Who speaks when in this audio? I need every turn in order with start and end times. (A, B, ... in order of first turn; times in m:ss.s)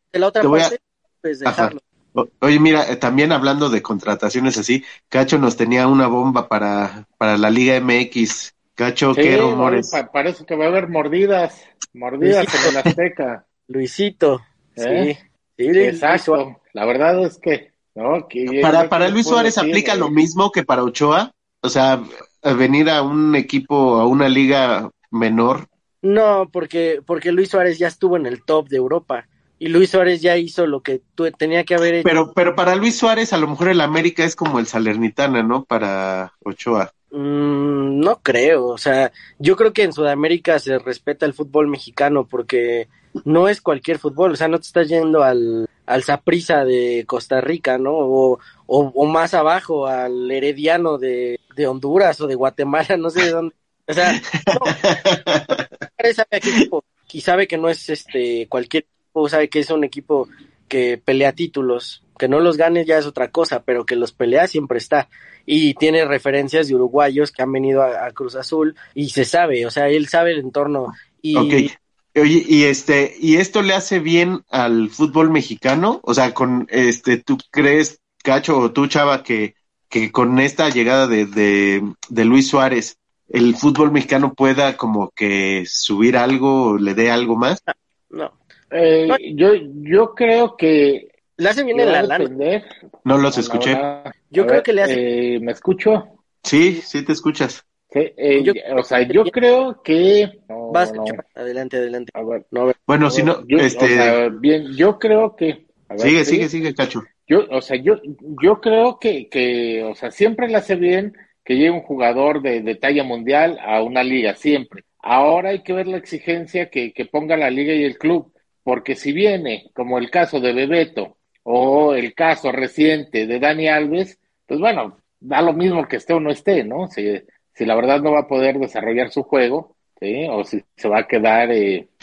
0:00.1-0:01.8 A
0:00.4-0:00.7 B
0:01.4-0:10.0 B
0:09.1-0:13.4 C
0:12.2-0:12.7 A
0:13.7-0:16.4 A
0:14.8-0:15.1 C
0:15.8-0:20.1 C
0:18.5-0:25.7 B
0:26.0-0:32.1 A
0:32.0-0:36.9 B
0:37.1-0:54.8 A
0:54.1-0:55.6 B
0:56.0-1:11.7 A
1:11.3-1:27.6 B
1:27.7-1:28.3 A
1:28.7-1:31.1 C
1:31.4-1:32.3 A
1:31.7-1:32.6 C
1:33.0-1:33.8 B
1:33.3-1:36.1 C
1:34.3-1:35.0 A
1:36.4-1:37.6 B
1:37.9-1:41.2 C
1:38.4-1:39.3 A
1:40.7-1:42.8 A
1:42.1-1:42.4 C
1:42.9-1:44.2 B
1:43.1-1:46.5 C
1:46.0-1:47.1 B
1:47.3-2:11.9 C